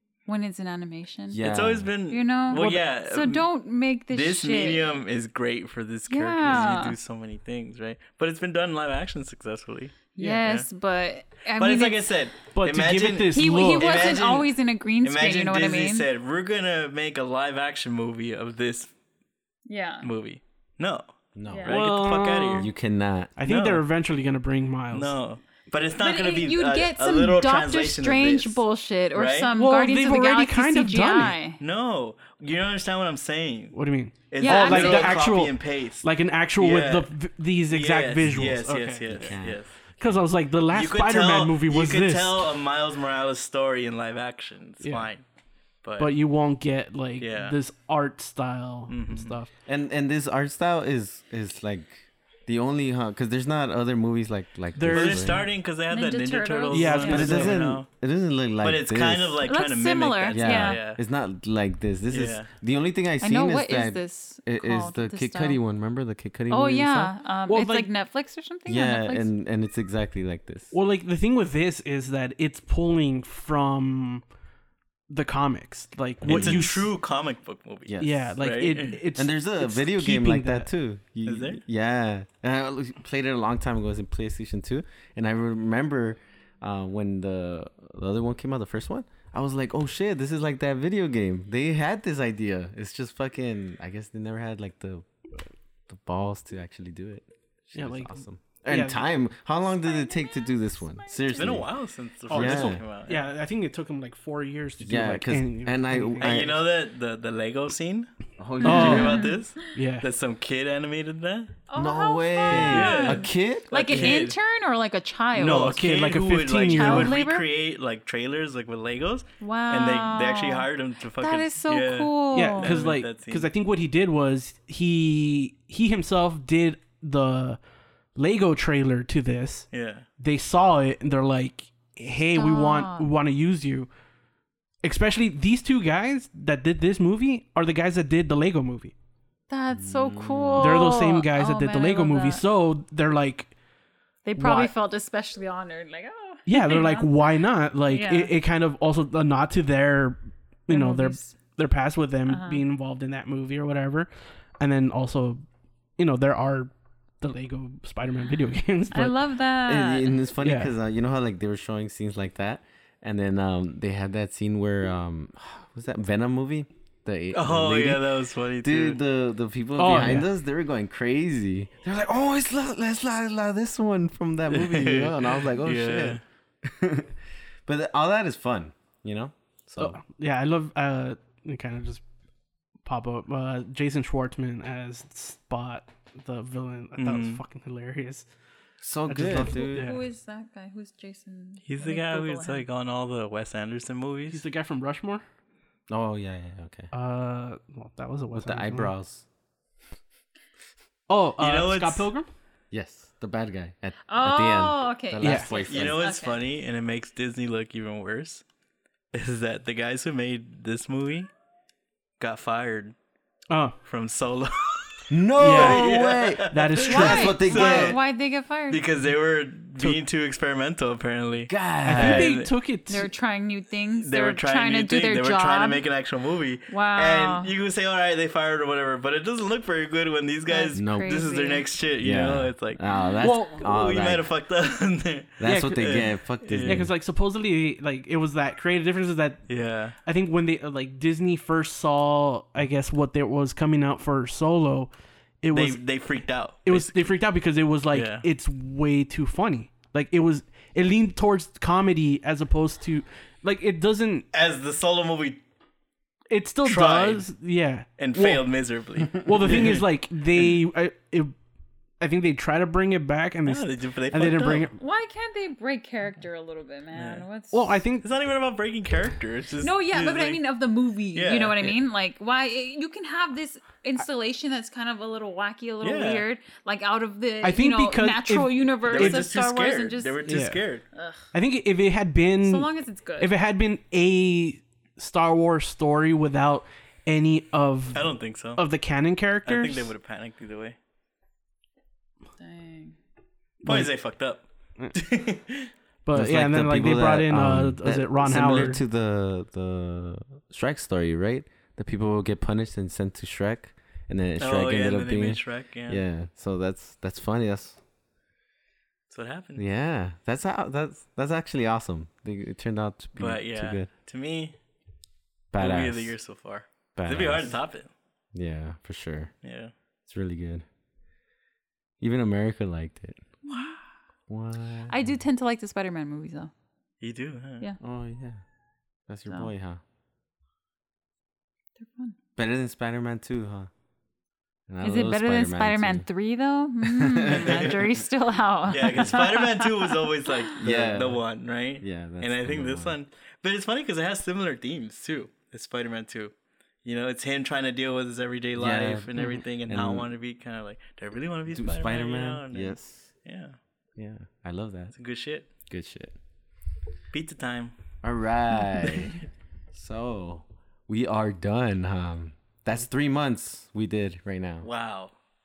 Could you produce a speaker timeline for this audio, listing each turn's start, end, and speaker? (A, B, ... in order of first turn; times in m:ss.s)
0:00.3-0:01.5 A
0:01.3-0:01.9 B
0:01.4-0:03.4 C
0:02.1-0:04.8 A
0:04.1-0:10.7 C
0:06.1-0:07.0 A
0:10.2-0:12.1 A
0:10.2-0:10.4 D
0:11.6-0:18.9 C
0:12.5-0:14.1 D
0:13.3-0:16.1 A
0:19.7-0:20.1 A
0:20.0-0:21.1 C
0:21.4-0:21.8 B
0:21.5-0:21.8 A
0:21.6-0:22.7 C
0:21.7-0:22.7 D
0:22.5-0:23.3 B
0:23.4-0:25.2 D
0:23.4-0:23.8 C
0:24.9-0:28.6 C
0:26.0-0:31.6 A
0:29.1-0:29.5 C
0:29.6-0:31.4 D
0:31.6-0:33.8 C
0:33.7-0:39.4 D
0:34.3-0:36.1 C
0:34.4-0:35.2 A
0:36.6-0:37.1 C
0:37.7-0:39.8 C
0:39.1-0:40.2 B
0:40.0-0:42.4 D
0:40.7-0:45.2 C
0:44.8-0:45.1 D
0:45.8-0:46.2 C
0:46.0-0:49.5 D
0:47.2-0:47.6 C
0:48.9-0:49.4 C
0:49.7-0:55.4 B
0:54.8-0:55.5 D
0:54.9-0:57.9 C
0:55.9-0:57.4 A
0:56.7-0:57.6 D
0:57.1-0:59.4 B
0:58.6-1:01.0 C
0:59.4-1:00.8 A
1:00.3-1:07.1 B
1:02.1-1:02.5 C
1:03.2-1:05.6 A
1:06.5-1:09.3 A
1:07.5-1:07.9 D
1:08.7-1:10.7 B
1:10.7-1:14.2 D
1:15.1-1:16.9 D
1:16.2-1:19.0 C
1:16.3-1:16.6 B
1:17.9-1:18.4 B
1:18.0-1:20.7 D
1:19.1-1:35.1 B
1:21.2-1:21.6 C
1:35.9-1:41.7 B
1:37.8-1:38.2 D
1:38.7-1:39.0 D
1:39.8-1:41.5 A
1:41.4-1:43.3 C
1:42.3-1:46.4 D
1:42.3-1:42.8 B
1:44.8-1:46.6 B
1:46.2-1:48.1 C
1:48.4-1:49.2 B
1:48.6-1:49.7 A
1:48.6-1:51.5 C
1:48.6-1:49.2 D
1:49.7-1:50.1 D
1:51.7-1:55.8 A
1:51.8-1:54.2 B
1:52.5-1:52.9 D
1:52.5-1:54.4 C
1:55.3-1:57.2 D
1:55.4-2:03.5 C
1:56.7-1:57.4 A
1:59.4-2:00.7 A
2:01.2-2:02.8 A
2:02.3-2:07.6 D
2:08.2-2:09.7 D
2:09.7-2:10.0 C
2:10.2-2:13.9 D
2:12.3-2:13.1 A
2:14.8-2:18.9 D
2:19.5-2:22.4 A
2:19.7-2:20.9 B
2:20.6-2:23.5 D
2:24.2-2:28.3 A
2:24.4-2:24.7 D
2:26.5-2:35.4 D
2:30.7-2:31.4 A
2:32.3-2:32.6 A
2:36.0-2:39.2 D
2:38.9-2:40.3 A
2:39.6-2:48.0 B
2:40.4-2:40.7 D
2:47.3-2:49.0 C
2:48.6-3:00.0 B
2:49.8-2:50.3 D
2:54.5-2:56.2 C
2:59.8-3:02.0 D
3:02.8-3:08.3 D
3:07.0-3:07.4 C
3:08.8-3:09.9 B
3:09.1-3:10.0 D
3:09.2-3:12.7 A
3:11.7-3:14.4 C
3:14.3-3:15.2 D
3:15.9-3:16.9 B
3:16.9-3:18.9 D
3:18.3-3:19.2 B
3:21.1-3:22.3 D
3:21.4-3:22.1 C
3:22.7-3:26.0 B
3:24.1-3:26.4 A
3:25.2-3:25.5 D
3:25.7-3:28.4 C
3:29.1-3:31.3 C
3:32.2-3:33.0 C
3:33.5-3:33.8 D
3:33.9-3:38.0 C
3:35.1-3:38.0 B
3:35.4-3:36.0 D
3:36.5-3:37.5 D
3:36.9-3:38.8 A
3:38.7-3:42.5 C
3:41.5-3:42.4 B
3:41.8-3:43.1 D
3:42.9-3:45.8 A
3:44.0-3:56.8 C
3:46.7-3:47.5 A
3:50.5-3:51.7 A
3:50.7-3:51.2 B
3:52.0-3:54.3 B
3:53.2-3:53.7 D
3:55.4-3:56.9 B
3:55.4-3:56.0 D
3:56.6-3:59.4 D
3:59.5-4:00.0 C
4:00.0-4:04.9 D
4:05.4-4:06.0 D
4:05.5-4:07.2 C
4:06.6-4:14.3 D
4:07.9-4:08.3 C
4:14.3-4:15.4 C
4:16.3-4:18.4 D
4:16.6-4:17.3 C
4:18.0-4:20.6 C
4:19.1-4:21.3 D
4:22.0-4:24.8 D
4:23.5-4:24.7 C
4:24.8-4:27.8 A
4:27.0-4:27.3 C
4:27.5-4:28.1 D
4:28.0-4:30.4 C
4:29.6-4:40.2 A
4:31.1-4:31.8 C
4:35.8-4:36.2 C
4:37.4-4:39.3 D
4:38.9-4:40.8 C
4:40.2-4:40.6 D
4:40.9-4:41.3 A
4:41.3-4:49.9 D
4:42.4-4:43.3 A
4:47.9-4:48.6 C
4:49.4-4:50.8 C
4:52.4-4:53.0 A
4:53.6-4:53.9 D
4:53.6-4:55.7 C
4:56.0-4:58.8 D
4:56.1-5:07.8 B
5:04.4-5:06.0 C
5:09.1-5:09.6 C
5:09.6-5:13.9 B
5:13.2-5:14.6 C
5:15.5-5:16.2 B
5:15.6-5:17.9 C
5:17.0-5:17.6 B
5:18.3-5:19.3 B
5:19.4-5:19.7 C
5:20.1-5:20.6 B
5:22.0-5:23.2 B
5:23.5-5:23.8 A
5:24.3-5:24.9 B
5:24.9-5:26.5 A
5:27.0-5:27.6 C
5:27.8-5:28.4 B
5:29.1-5:29.8 B
5:31.8-5:32.2 A
5:32.4-5:33.7 B
5:34.7-5:36.1 B
5:34.8-5:40.4 A
5:36.8-5:37.8 B
5:37.3-5:37.8 C
5:38.7-5:46.3 C
5:40.6-5:41.2 B
5:41.8-5:43.0 B
5:46.8-5:53.6 C
5:48.6-5:50.1 B
5:51.5-5:53.1 B
5:54.0-5:54.9 B
5:55.0-5:55.5 C
5:55.7-5:56.2 B
5:57.1-5:57.7 C
5:58.0-5:59.2 B
5:59.7-6:04.7 B
6:04.6-6:05.1 C